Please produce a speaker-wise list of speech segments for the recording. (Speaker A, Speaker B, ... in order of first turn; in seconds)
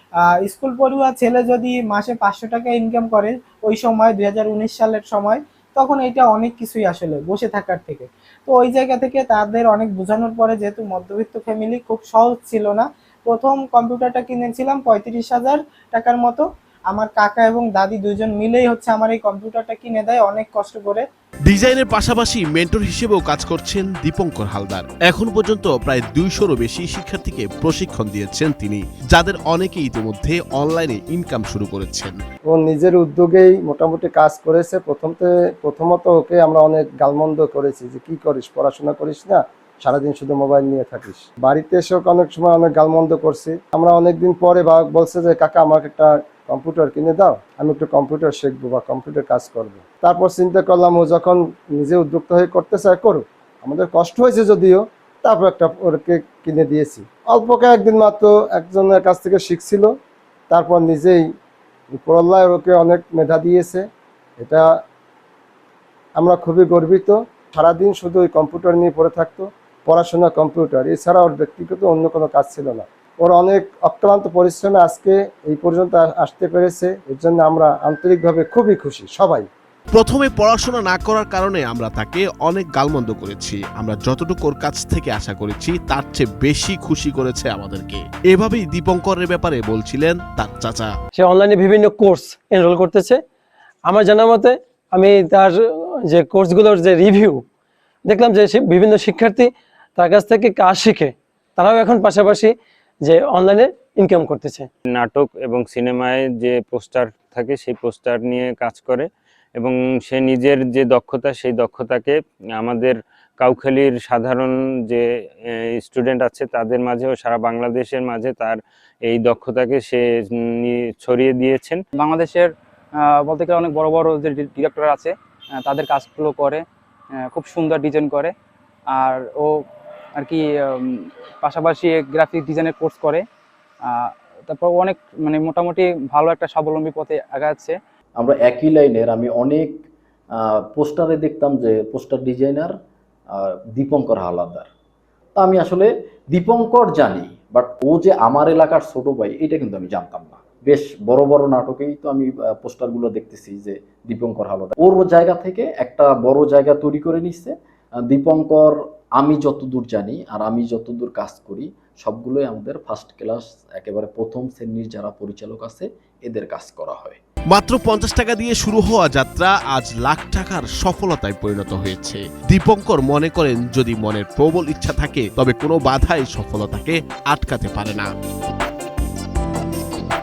Speaker A: 0.4-21.0
Speaker B: 21.5-32.2, 79.9-90.9, 167.5-178.1
Speaker C: 32.5-59.9, 60.5-61.2, 62.0-63.9, 64.4-64.7, 66.2-79.5
Speaker D: 91.2-93.2, 93.9-97.4, 98.1-104.7
Speaker E: 104.9-121.8
Speaker F: 122.0-126.7, 127.2-128.3, 128.9-133.3, 133.8-137.8
Speaker G: 138.2-139.8, 140.3-142.8, 143.3-144.7, 145.3-167.2